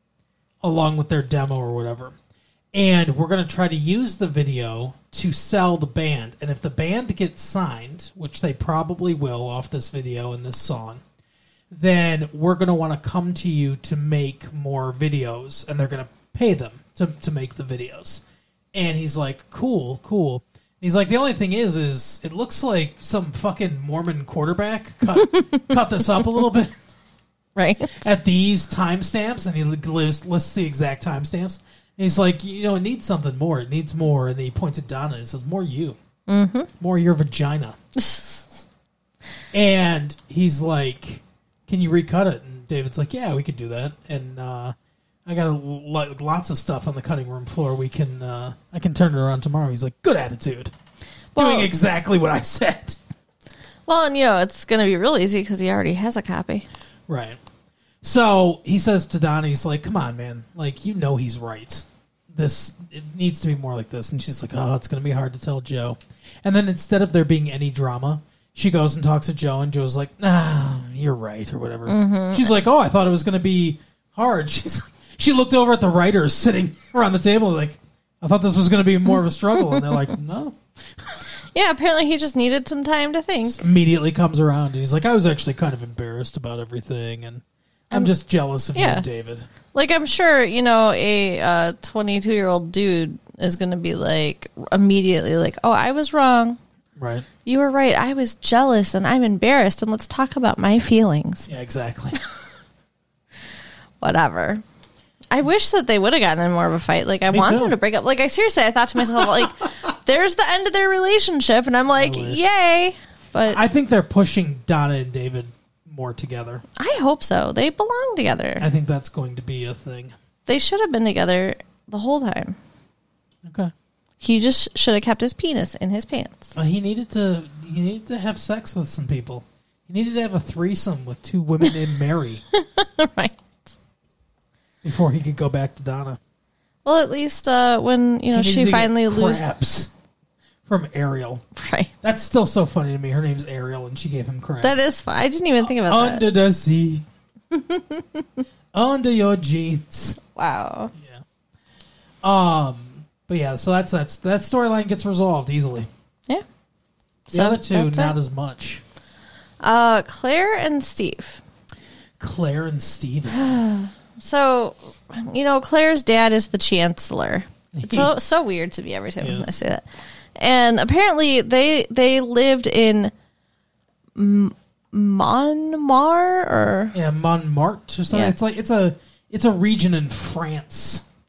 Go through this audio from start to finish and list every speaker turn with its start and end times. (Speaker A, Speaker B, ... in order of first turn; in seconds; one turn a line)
Speaker A: 0.6-2.1
Speaker A: 2.7-11.0
Speaker A: 11.7-18.2
Speaker A: 18.7-26.8
Speaker B: 25.4-25.7
Speaker B: 27.6-28.1
Speaker A: 27.9-36.0
Speaker B: 36.3-36.7
Speaker A: 36.8-37.8
Speaker B: 38.0-38.6
Speaker A: 39.5-44.8
Speaker A: 45.3-50.7
Speaker B: 51.4-51.7
Speaker A: 51.4-53.0
Speaker B: 53.9-56.7
Speaker A: 57.1-57.4
Speaker A: 58.0-81.2
Speaker B: 71.9-72.5
Speaker B: 79.7-80.1
Speaker B: 81.5-83.6
Speaker A: 83.5-89.5
Speaker B: 88.8-89.1
Speaker B: 89.7-96.6
Speaker A: 97.0-97.3
Speaker B: 97.5-101.5
Speaker A: 101.5-102.2
Speaker B: 104.0-104.6
Speaker B: 105.3-113.6
Speaker A: 107.3-107.8
Speaker A: 109.1-109.5
Speaker A: 111.9-112.4
Speaker A: 113.5-116.6
Speaker B: 116.8-118.7
Speaker A: 118.6-120.1
Speaker B: 120.5-122.6
Speaker A: 123.5-123.7
Speaker B: 124.2-126.6
Speaker A: 126.6-132.4
Speaker B: 132.5-133.5
Speaker A: 134.8-136.2
Speaker B: 136.8-139.4
Speaker A: 138.3-139.9
Speaker A: 140.7-141.4
Speaker B: 141.6-141.9
Speaker A: 142.0-144.8
Speaker B: 144.6-146.2
Speaker A: 145.6-147.0
Speaker B: 147.5-148.4
Speaker A: 148.7-150.2
Speaker B: 150.3-150.9
Speaker A: 150.9-151.2
Speaker A: 152.2-155.9
Speaker A: 157.3-158.8
Speaker B: 157.3-158.2
Speaker B: 159.6-161.4
Speaker A: 162.2-163.6
Speaker B: 163.3-169.8
Speaker A: 167.7-168.1
Speaker A: 169.2-169.6
Speaker B: 170.4-173.1
Speaker B: 174.2-176.9
Speaker A: 176.9-181.0